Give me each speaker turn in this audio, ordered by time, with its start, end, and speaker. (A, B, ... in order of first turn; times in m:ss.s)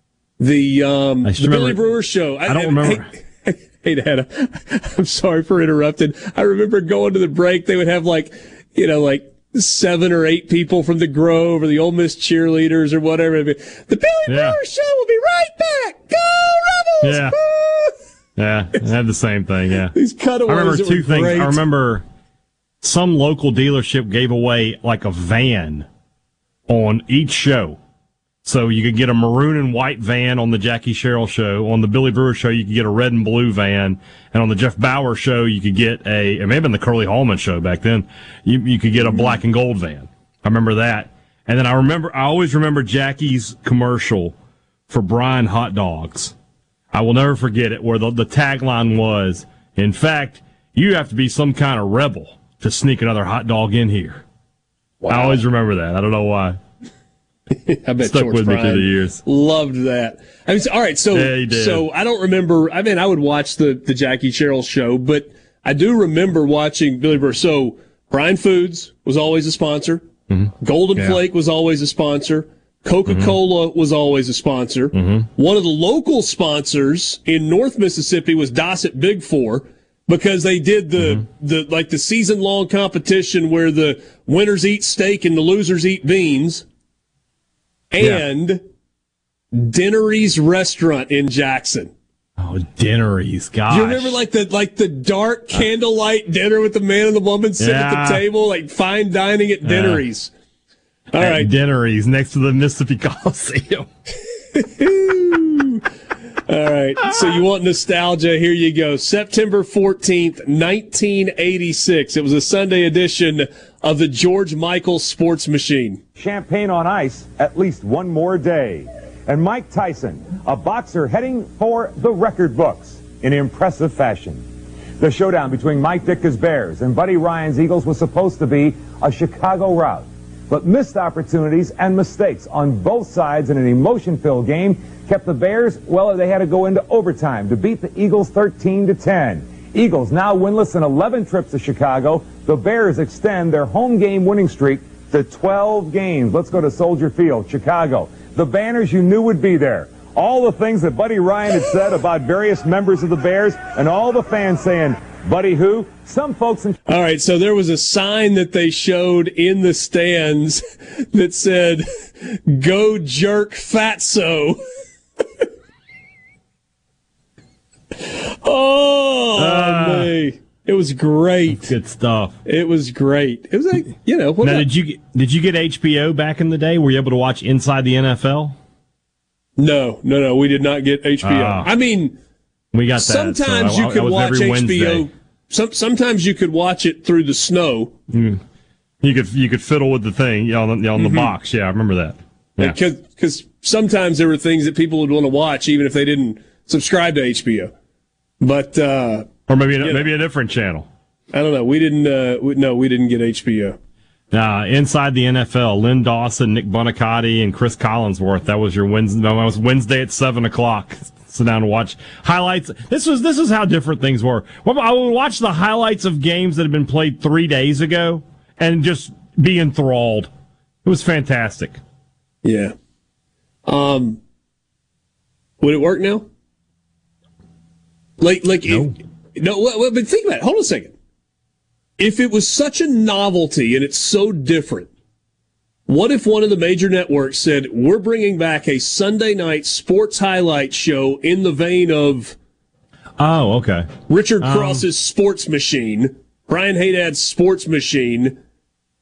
0:00.4-0:17.9 A
0:01.2-0:01.8 B
0:02.4-0:03.1 B
0:14.3-0:14.6 B
0:17.0-0:17.4 B
0:18.4-0:22.0 B
0:19.9-0:21.6 A
0:22.8-0:25.9 B
0:26.7-0:27.8 B
0:28.4-0:44.4 B
0:44.9-0:46.3 B
0:46.9-0:54.2 B
0:55.0-0:55.4 A
0:55.1-0:56.6 B
0:57.5-1:10.0 A
0:58.0-0:59.2 B
1:01.1-1:01.9 B
1:10.3-1:11.2 B
1:10.6-1:26.6 A
1:13.1-1:13.4 B
1:14.9-1:15.3 B
1:21.0-1:21.2 B
1:27.9-1:28.6 A
1:29.5-1:31.9 A
1:32.4-1:34.2 B
1:33.7-1:40.3 A
1:37.6-1:38.2 B
1:39.6-1:40.0 B
1:41.1-1:41.5 A
1:41.1-1:43.9 B
1:44.5-1:45.8 A
1:46.5-1:56.0 A
1:47.0-1:47.4 B
1:56.2-2:04.4 C
2:05.0-2:36.8 C
2:36.9-2:44.6 A
2:48.0-2:51.7 A
2:49.4-2:50.1 B
2:51.5-2:52.4 B
2:52.4-2:54.7 A
2:54.4-2:58.6 B
2:59.6-3:02.2 A
3:01.2-3:01.7 B
3:02.7-3:05.1 B
3:03.0-3:07.9 A
3:08.1-3:08.4 B
3:09.0-3:12.8 B
3:11.0-3:11.3 A
3:12.6-3:17.7 A
3:18.4-3:20.1 A
3:19.5-3:20.9 B
3:21.3-3:23.8 A
3:24.3-3:40.3 B
3:40.8-3:41.8 B
3:42.4-3:42.7 A
3:43.6-3:44.2 A
3:45.6-3:46.2 A
3:48.2-3:50.9 A
3:48.7-3:48.9 B
3:52.0-3:54.9 A
3:55.9-4:02.4 A
4:03.2-4:04.8 B
4:04.1-4:08.4 A